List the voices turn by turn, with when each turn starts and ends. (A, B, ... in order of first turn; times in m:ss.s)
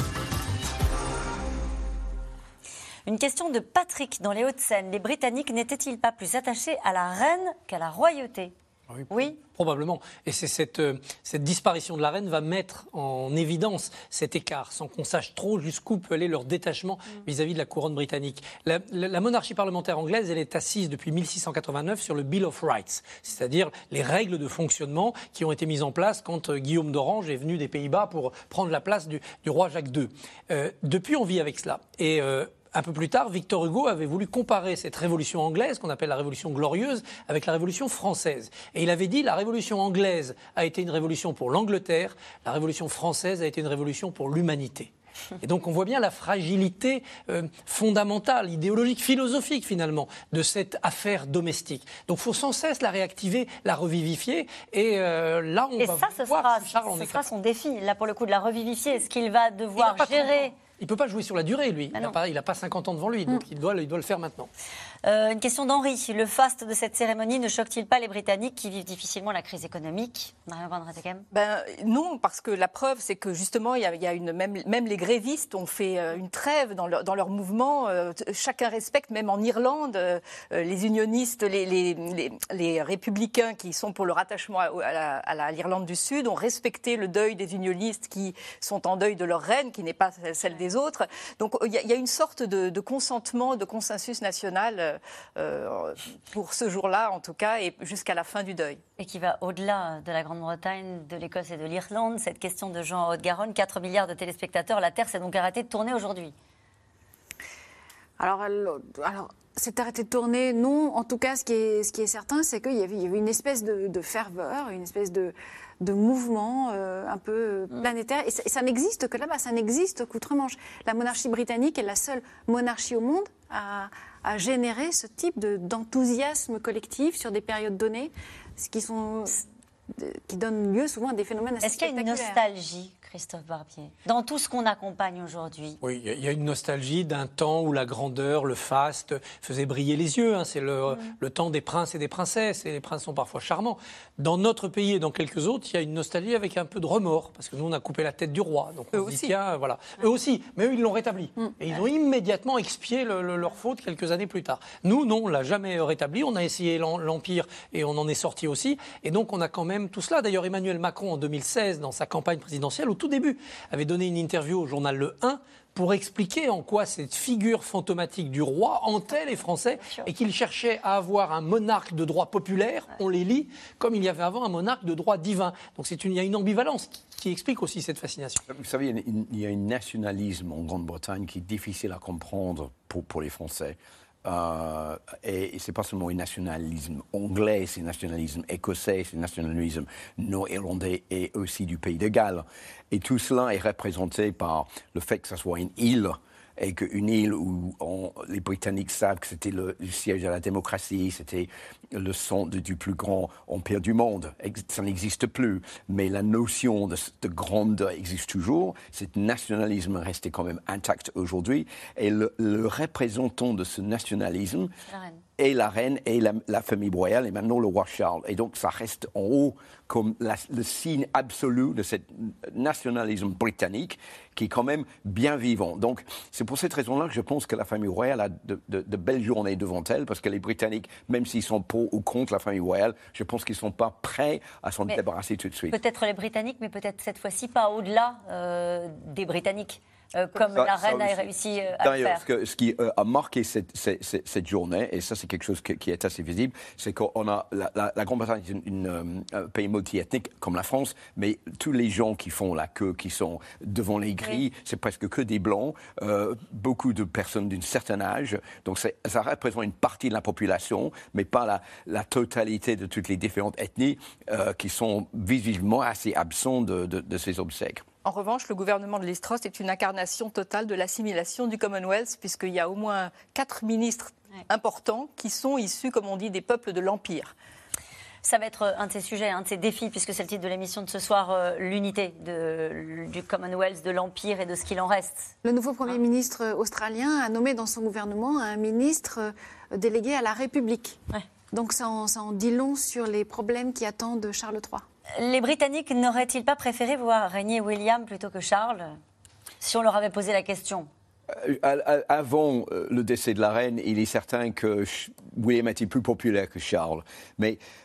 0:03.0-0:08.5 A
0:08.9-0:57.3 B
0:09.1-0:09.4 A
0:55.8-1:00.5 A
0:59.8-1:04.5 B
1:05.0-1:11.2 A
1:11.3-1:38.8 C
1:39.0-1:46.3 A
1:48.2-2:09.4 D
2:10.0-2:12.4 D
2:11.6-2:15.8 A
2:15.8-2:58.4 B
2:28.9-2:29.4 C
2:49.8-2:50.1 A
2:58.5-3:34.7 E
3:34.9-3:35.2 A
3:35.4-3:55.8 E
3:55.7-4:02.2 A
4:00.4-4:27.8 E
4:28.0-4:37.3 C
4:38.2-4:45.3 A
4:45.4-4:51.0 D
4:51.5-4:54.8 D
4:55.2-4:59.0 A
4:59.6-5:00.9 A
5:01.3-5:07.6 E